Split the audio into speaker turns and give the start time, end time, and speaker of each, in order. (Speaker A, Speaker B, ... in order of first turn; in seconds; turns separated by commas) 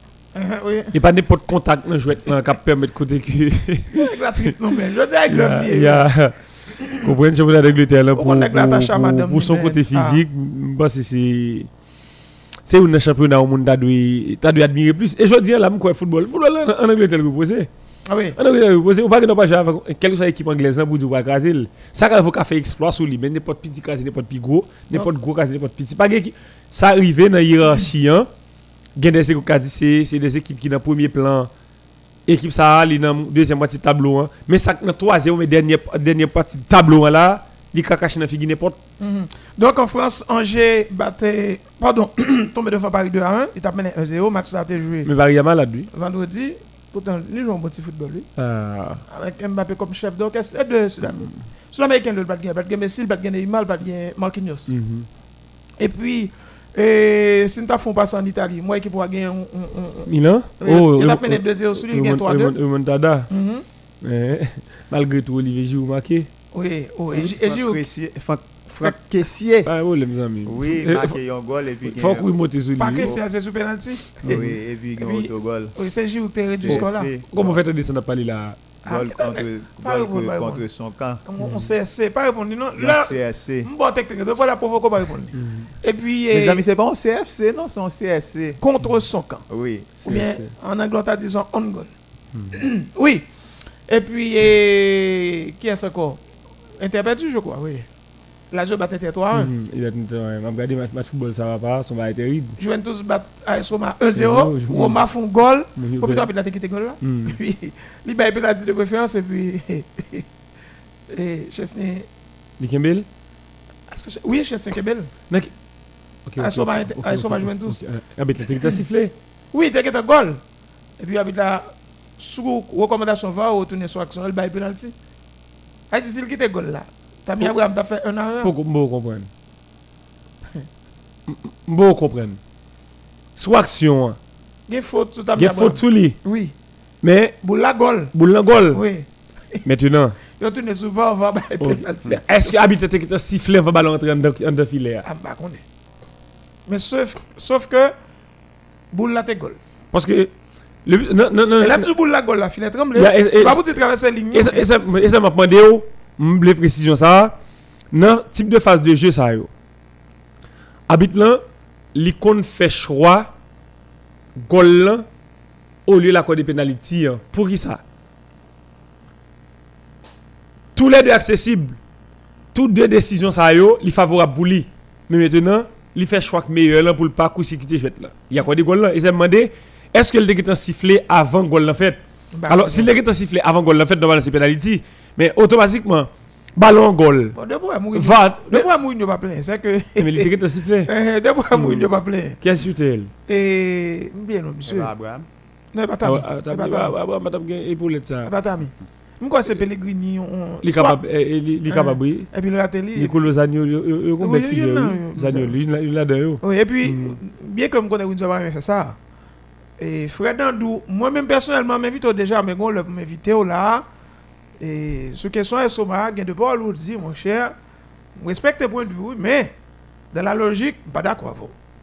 Speaker A: 0.3-0.9, Speaker B: 0.9-4.1, Speaker A: 3.9-6.0, Speaker B: 5.3-11.7, Speaker A: 6.8-7.1, Speaker A: 8.2-10.2, Speaker B: 12.7-17.7, Speaker A: 18.1-18.4, Speaker B: 18.4-28.3, Speaker B: 29.0-31.5, Speaker B: 32.2-38.8, Speaker A: 39.0-45.1, Speaker B: 45.0-45.9, Speaker A: 45.9-48.3, Speaker B: 48.4-49.0, Speaker A: 49.1-54.7, Speaker B: 51.0-51.3, Speaker B: 54.7-55.1, Speaker A: 55.8-62.5, Speaker B: 60.0-63.3, Speaker A: 63.3-63.6, Speaker B: 64.0-66.3, Speaker A: 66.5-67.8, Speaker C: 67.1-69.7, Speaker B: 69.6-71.2, Speaker C: 70.4-72.3, Speaker B: 71.9-73.1, Speaker A: 72.8-74.4, Speaker C: 74.2-75.8, Speaker B: 74.2-74.5, Speaker A: 75.0-77.1, Speaker C: 76.5-77.6, Speaker B: 76.6-78.6, Speaker A: 78.8-80.6, Speaker C: 78.9-81.2, Speaker A: 81.2-86.6, Speaker B: 81.4-81.7, Speaker C: 82.8-83.7, Speaker B: 85.3-85.7, Speaker C: 86.3-88.6, Speaker A: 88.6-89.4, Speaker C: 89.5-90.5, Speaker A: 90.0-91.9, Speaker A: 92.5-93.2, Speaker A: 93.9-96.2, Speaker A: 96.8-97.9, Speaker A: 98.5-99.5, Speaker B: 99.3-102.6, Speaker A: 102.6-110.2, Speaker B: 104.2-105.0, Speaker B: 105.8-106.3, Speaker B: 107.0-107.4, Speaker A: 111.1-112.1, Speaker B: 112.6-113.0, Speaker A: 113.9-115.1, Speaker B: 116.2-119.1, Speaker A: 116.4-117.8, Speaker A: 119.5-120.4, Speaker A: 121.0-124.9, Speaker A: 125.9-128.5, Speaker B: 128.4-129.3, Speaker B: 131.3-132.4, Speaker B: 133.4-134.2, Speaker A: 134.7-136.5, Speaker B: 135.3-136.2, Speaker B: 137.0-137.3, Speaker A: 137.4-138.1, Speaker B: 138.1-138.8, Speaker A: 138.7-139.6, Speaker B: 139.6-140.2, Speaker A: 140.4-142.5, Speaker B: 141.6-145.0, Speaker A: 145.0-145.6, Speaker A: 146.7-147.9, Speaker A: 148.9-149.6, Speaker B: 149.9-150.3, Speaker B: 150.8-151.9, Speaker A: 151.6-154.7, Speaker B: 152.9-153.6, Speaker B: 154.3-157.3, Speaker B: 157.9-159.5, Speaker B: 160.9-161.4, Speaker B: 161.9-163.3, Speaker B: 164.4-165.0, Speaker B: 165.8-167.8, Speaker B: 170.8-171.8, Speaker B: 172.5-187.3, Speaker A: 182.3-182.9, Speaker A: 187.3-190.3, Speaker B: 187.9-188.7, Speaker B: 190.0-190.9, Speaker A: 190.9-192.4, Speaker B: 191.5-193.1, Speaker A: 193.3-194.9, Speaker C: 194.7-195.2, Speaker A: 195.7-196.9, Speaker B: 196.0-198.3, Speaker A: 198.2-201.0, Speaker B: 200.6-202.3, Speaker A: 201.7-203.2, Speaker B: 202.9-207.2, Speaker A: 204.2-205.6, Speaker A: 206.4-209.0, Speaker A: 209.8-213.8, Speaker A: 214.6-217.5, Speaker A: 218.2-219.5, Speaker A: 220.1-221.5